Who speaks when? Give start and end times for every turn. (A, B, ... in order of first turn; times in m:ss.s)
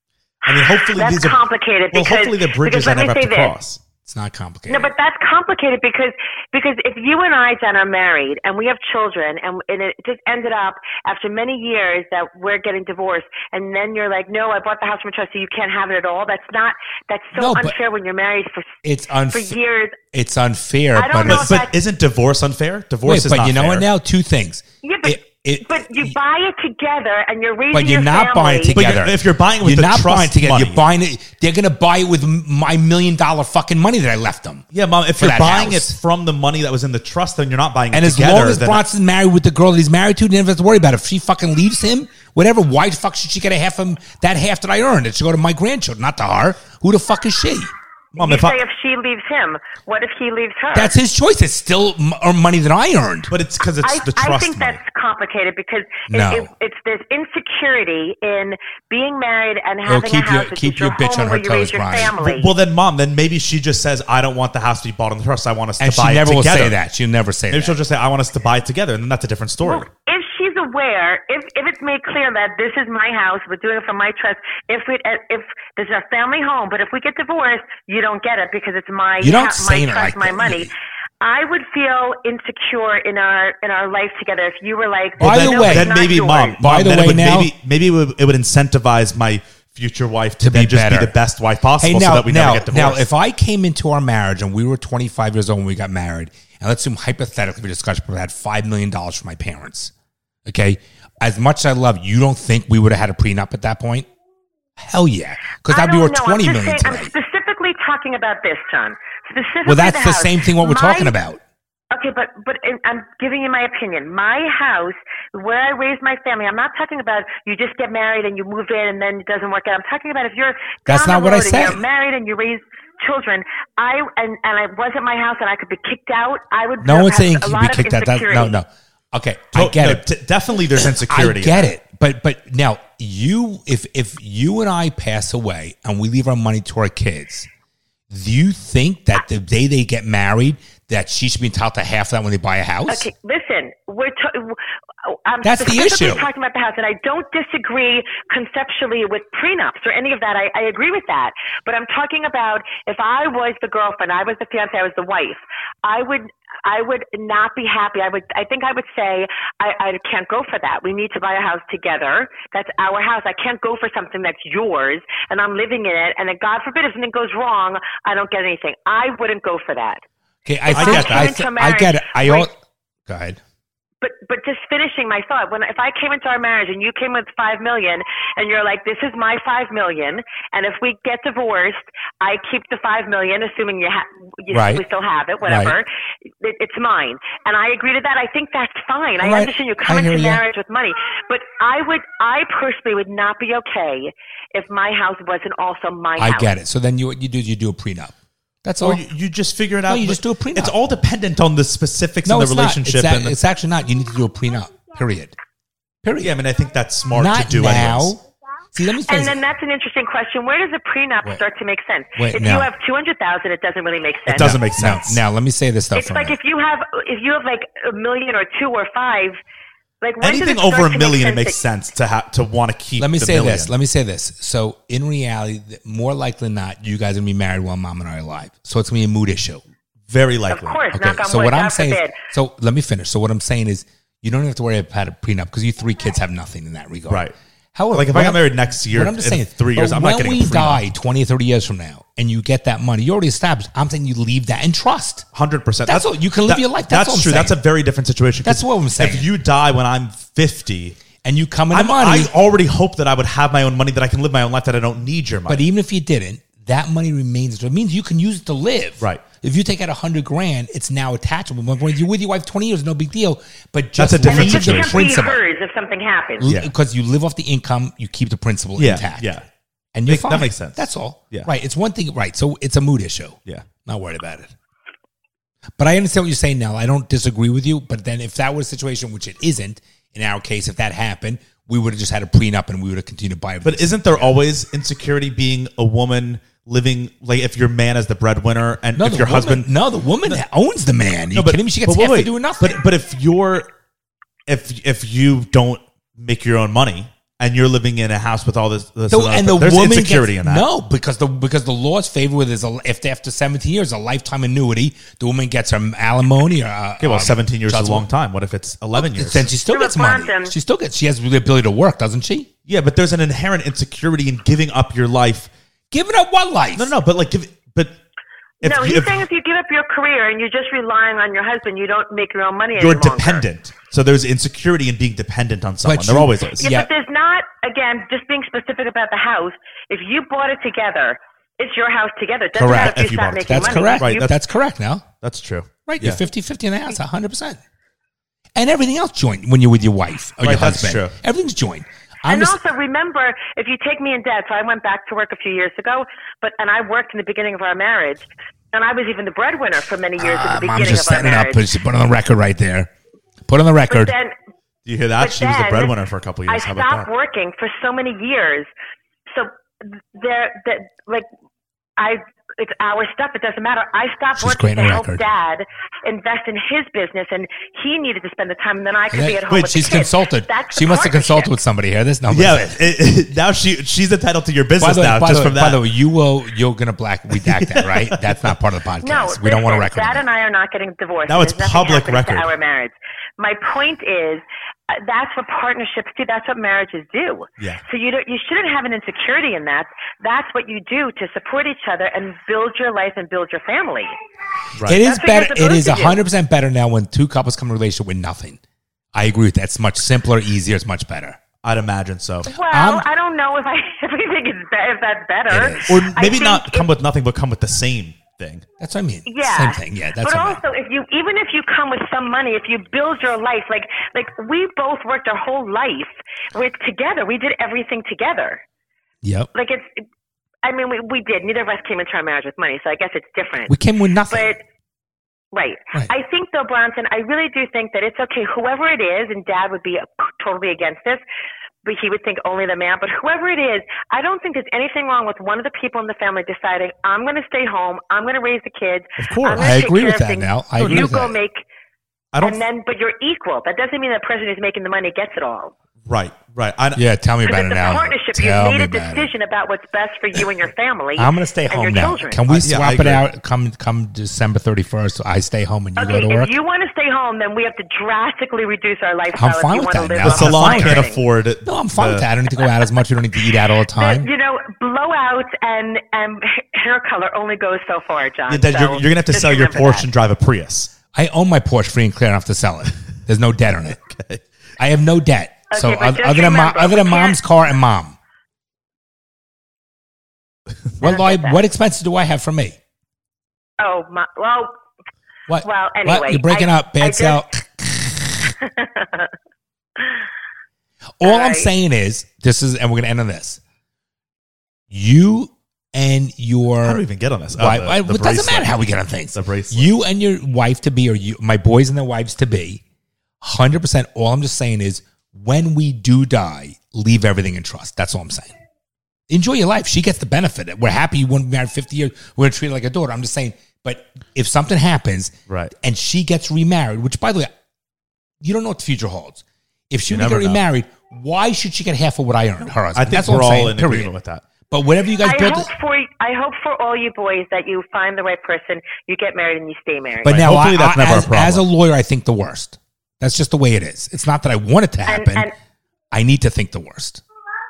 0:00.4-0:03.5 A
0:00.5-0:03.8 B
0:04.0-0:04.9 C
0:04.7-0:20.0 A
0:17.3-0:17.8 C
0:18.8-0:19.6 C
0:20.1-0:21.6 C
0:21.0-0:21.7 A
0:21.2-0:23.9 B
0:23.1-0:26.2 C
0:24.8-0:28.8 A
0:27.7-0:34.6 C
0:28.7-0:30.8 B
0:34.7-0:38.8 B
0:35.2-0:36.0 C
0:37.9-0:47.7 C
0:48.1-0:48.6 B
0:48.2-0:50.9 A
0:50.7-0:53.3 C
0:53.3-0:54.8 B
0:53.8-1:02.5 A
0:56.1-0:56.5 C
0:59.8-1:02.2 C
1:02.2-1:06.8 B
1:05.8-1:07.8 C
1:07.5-1:09.9 B
1:09.6-1:26.6 A
1:19.2-1:20.7 C
1:25.2-1:25.9 C
1:25.2-1:33.0 B
1:26.6-1:27.5 C
1:30.4-1:31.1 C
1:31.8-1:39.9 C
1:40.4-1:44.1 C
1:44.8-1:47.1 C
1:45.7-1:51.1 A
1:49.6-1:51.4 C
1:51.9-2:08.6 A
2:00.9-2:01.8 C
2:06.8-2:10.0 C
2:09.5-2:11.7 B
2:10.8-2:17.5 C
2:18.1-2:23.1 C
2:22.9-2:50.0 A
2:25.4-2:26.3 C
2:50.5-2:52.5 C
2:50.7-2:52.5 A
2:50.8-2:51.3 B
2:53.1-2:53.4 C
2:54.0-3:16.5 A
3:04.5-3:04.8 C
3:05.4-3:05.8 C
3:09.2-3:10.4 C
3:16.2-3:19.0 C
3:18.8-3:23.4 B
3:19.9-3:20.8 C
3:22.2-3:25.3 C
3:26.0-3:26.4 C
3:26.2-3:28.2 B
3:27.2-3:28.2 C
3:28.7-3:29.4 C
3:29.1-3:34.6 A
3:32.2-3:32.7 C
3:34.3-3:35.2 B
3:34.4-3:36.4 C
3:35.9-3:39.4 A
3:40.0-3:41.6 A
3:40.2-3:43.7 B
3:43.0-3:49.6 C
3:50.1-3:50.8 B
3:50.5-3:52.2 A
3:50.9-4:05.3 C
3:57.1-3:57.3 B
3:57.9-4:00.8 B
4:05.3-4:11.0 B
4:05.9-4:07.6 C
4:08.4-4:09.3 C
4:11.2-4:12.3 C
4:11.7-4:15.6 B
4:15.5-4:25.4 C
4:24.0-4:25.1 B
4:24.2-4:26.5 A
4:26.4-4:29.3 C
4:26.4-4:26.7 B
4:28.8-4:29.5 B
4:30.0-4:34.5 C
4:30.1-4:31.5 B
4:35.8-4:44.3 C
4:43.6-4:49.7 B
4:49.0-4:52.8 C
4:51.3-4:53.7 B
4:54.5-5:00.7 B
4:59.1-5:08.1 C
5:07.0-5:09.5 B
5:09.0-5:12.5 C
5:09.7-5:10.6 A
5:12.7-5:15.5 B
5:15.9-5:17.0 C
5:16.8-5:18.0 B
5:18.6-5:19.2 B
5:18.6-5:23.4 A
5:22.8-5:26.6 B
5:25.8-5:26.9 C
5:26.6-5:34.3 A
5:32.6-5:35.0 C
5:32.6-5:34.3 B
5:35.2-5:36.2 B
5:35.9-5:37.6 C
5:38.6-5:42.6 C
5:40.4-5:41.2 B
5:42.3-5:51.6 A
5:50.2-5:52.9 C
5:53.5-5:54.1 C
5:53.9-5:54.4 A
5:54.9-5:57.1 B
5:55.2-5:55.9 A
5:56.5-5:58.7 A
5:59.3-6:01.3 A
6:02.0-6:11.5 A
6:04.4-6:05.2 C
6:09.1-6:12.8 C
6:12.3-6:15.8 B
6:14.8-6:20.2 C
6:17.3-6:18.5 B
6:19.0-6:34.1 A
6:21.3-6:22.5 B
6:34.8-6:38.6 C
6:34.9-6:36.2 A
6:39.2-6:41.4 C
6:41.6-6:42.5 B
6:42.5-6:46.9 A
6:42.7-6:43.1 C
6:45.5-6:46.1 C
6:45.9-6:48.6 B
6:48.8-6:50.6 C
6:49.3-6:58.6 A
6:59.2-6:59.5 C
6:59.5-7:00.0 A
7:00.6-7:03.7 A
7:03.7-7:04.5 C
7:04.3-7:04.6 A
7:05.5-7:11.2 A
7:11.8-7:21.6 A
7:19.2-7:19.8 B
7:19.6-7:21.4 C
7:20.8-7:21.1 B
7:22.3-7:22.6 B
7:22.4-7:25.7 A
7:26.1-7:27.0 B
7:27.0-7:29.3 C
7:27.5-7:32.4 A
7:31.2-7:36.6 C
7:32.5-7:33.2 B
7:36.0-7:41.2 A
7:39.4-7:41.1 C
7:40.2-7:42.3 B
7:41.6-7:44.3 C
7:44.0-7:50.1 A
7:48.5-7:50.9 B
7:51.1-7:54.0 C
7:54.1-7:54.4 B
7:54.8-7:58.2 C
7:55.7-7:57.4 A
8:01.0-8:02.8 C
8:01.0-8:01.6 A
8:03.8-8:04.7 A
8:05.5-8:08.6 C
8:05.6-8:07.4 A
8:08.6-8:09.3 A
8:10.0-8:10.2 A
8:11.2-8:13.6 C
8:11.2-8:11.7 A
8:14.9-8:17.0 C
8:16.8-8:18.8 B
8:17.6-8:22.8 C
8:19.3-8:19.9 B
8:23.4-8:28.5 C
8:29.3-8:37.5 C
8:35.5-8:35.7 B
8:38.4-8:44.1 C
8:40.1-8:40.6 B
8:43.0-8:44.4 B
8:44.7-8:45.7 C
8:45.2-8:50.4 A
8:50.2-8:55.5 C
8:50.2-8:51.6 B
8:55.1-8:55.5 A
8:56.1-8:57.2 C